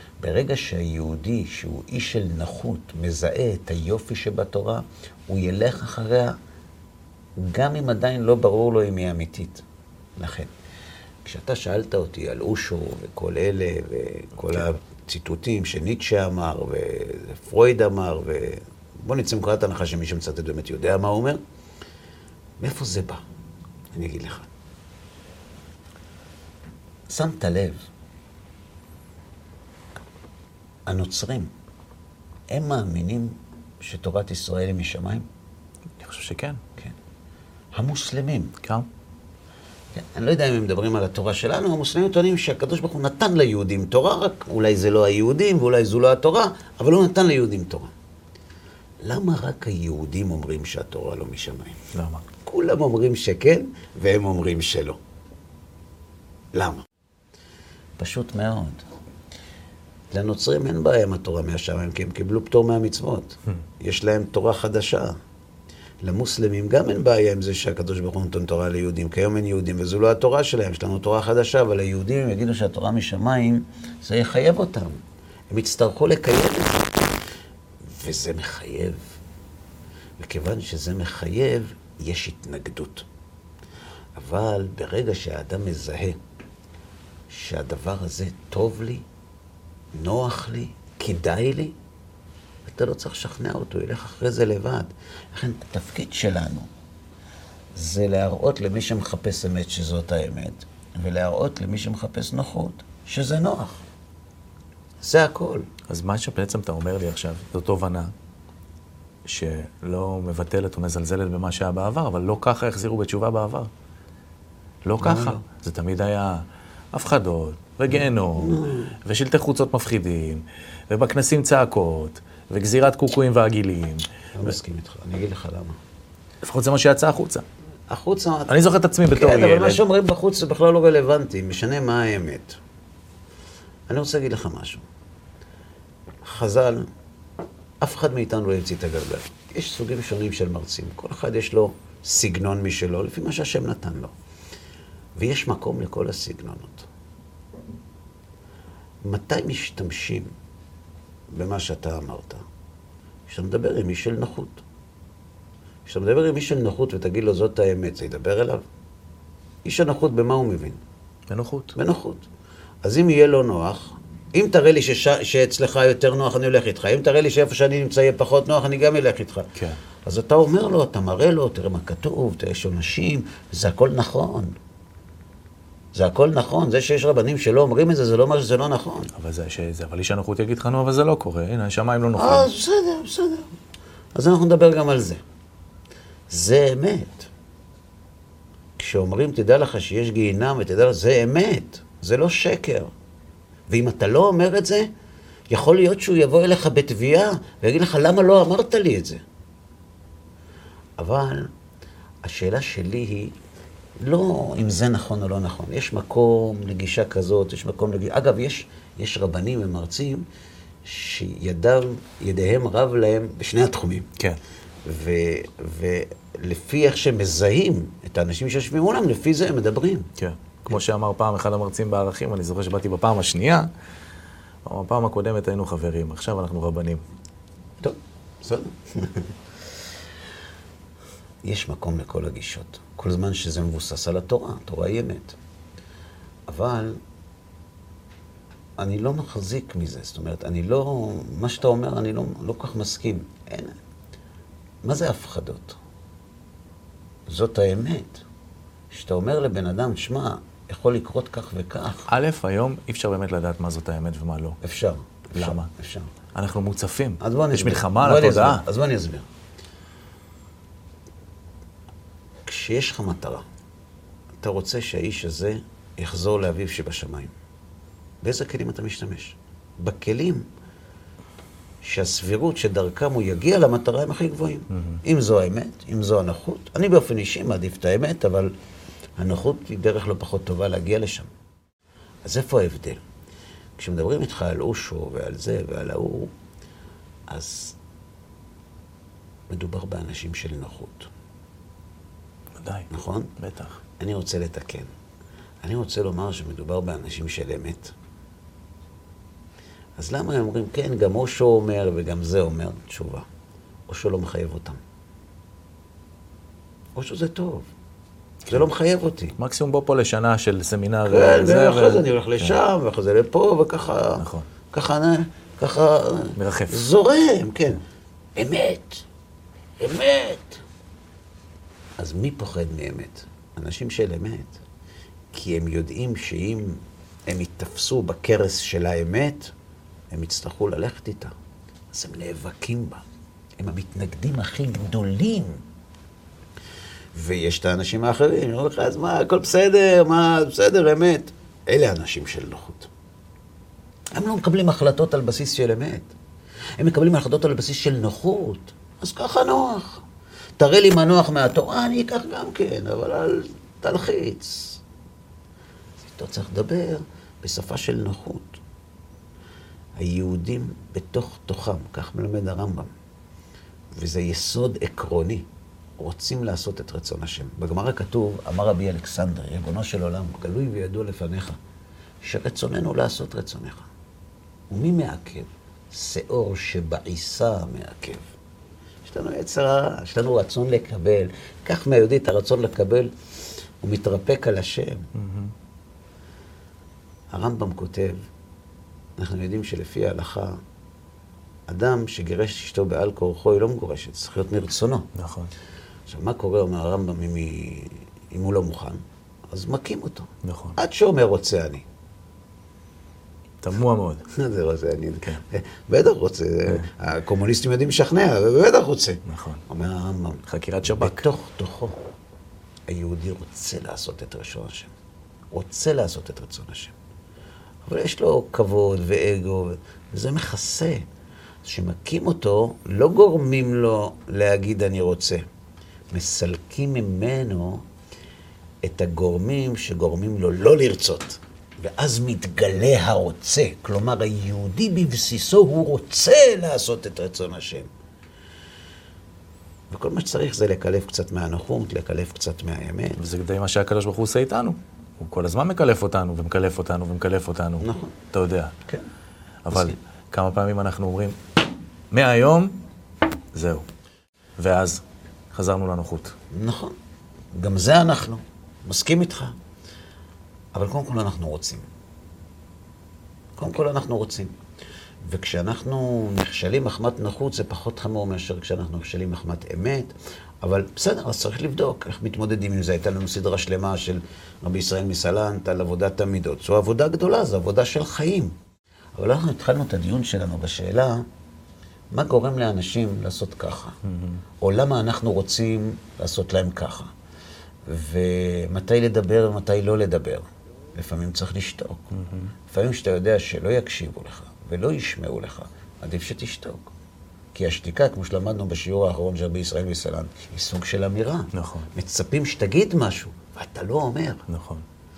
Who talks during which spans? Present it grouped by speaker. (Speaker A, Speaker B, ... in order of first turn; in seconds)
Speaker A: 0.2-6.4, 7.4-9.6, 10.2-10.5, 11.2-21.4, 22.6-23.2, 23.9-24.5, 27.1-27.8, 30.9-31.5, 32.5-35.3, 37.7-38.5, 39.9-47.9, 49.0-51.8, 52.4-55.0, 56.5-56.9, 58.0-58.9, 60.1-65.2, 66.0-75.0, 75.5-77.0, 77.8-79.2, 80.2-83.1, 84.2-86.2, 87.3-89.0, 90.0-91.8, 92.7-96.7, 97.8-103.8, 105.0-105.7, 115.0-115.4, 118.4-119.0, 124.4-125.8, 127.9-132.6, 133.9-134.8, 136.2-136.9, 137.8-144.2, 145.2-146.9, 149.0-150.3, 151.3-152.4, 153.3-154.6, 155.9-158.6, 159.7-160.8, 161.8-162.3, 162.8-169.5, 170.1-174.6, 175.9-179.1, 182.2-183.5, 184.2-185.2, 186.3-187.3, 188.8-192.9, 193.7-194.9, 195.5-199.2, 201.0-201.5, 202.2-203.4, 204.0-210.3, 210.8-214.1, 214.8-220.1, 227.8-229.3, 231.4-235.4, 236.5-237.0, 238.8-243.8, 244.8-245.8, 247.3-248.2, 248.9-252.1, 254.6-256.1, 257.2-259.3, 262.4-263.4, 264.4-267.3, 268.2-270.5, 271.8-278.5, 279.2-281.3, 282.2-283.0, 283.8-286.3, 287.3-287.8, 289.5-291.1, 292.9-293.3, 294.0-294.9, 295.6-297.9, 300.0-303.3, 303.9-304.8, 307.0-307.7, 308.5-309.4, 311.1-317.8, 318.4-319.1, 319.8-320.6, 322.0-324.6, 325.3-329.5, 330.1-331.3, 331.9-333.0, 333.6-335.6, 337.1-342.9, 344.1-346.1, 346.8-350.1, 350.6-354.8, 356.0-358.6, 360.0-362.9, 363.9-365.5, 366.0-371.6, 372.2-373.9, 374.7-378.3, 379.1-383.1, 383.8-385.1, 387.3-388.2, 389.2-390.6, 391.7-395.1, 396.1-401.9, 404.3-412.0, 412.9-414.9, 415.5-416.9, 417.9-421.1, 421.6-425.4, 426.1-427.9, 428.8-437.9, 439.9-443.2, 447.8-448.1, 449.7-450.0, 456.5-456.9, 457.5-459.5, 460.8-461.9, 463.6-464.6, 465.2-478.6, 479.2-481.2, 482.1-484.0, 484.6-487.1, 487.9-492.1, 492.7-496.9, 497.5-504.4
Speaker B: 36.0-36.6, 38.6-38.9, 51.9-52.3, 105.9-108.1, 109.2-113.7, 114.8-124.5, 126.4-127.5, 128.5-129.8, 161.3-161.8, 179.1-182.5, 220.2-223.7, 224.6-227.0, 252.1-254.6, 255.3-255.7, 256.3-258.6, 274.7-275.0, 292.6-293.8, 309.4-312.6, 314.2-314.5, 316.4-316.9, 385.1-385.5, 395.1-395.5, 400.4-400.8, 403.6-404.2, 409.3-409.6, 410.5-411.3, 443.2-448.8, 449.6-451.4, 452.1-452.8, 453.5-453.9, 454.6-456.3, 484.1-484.4, 492.1-492.5, 501.5-501.9, 504.5-504.9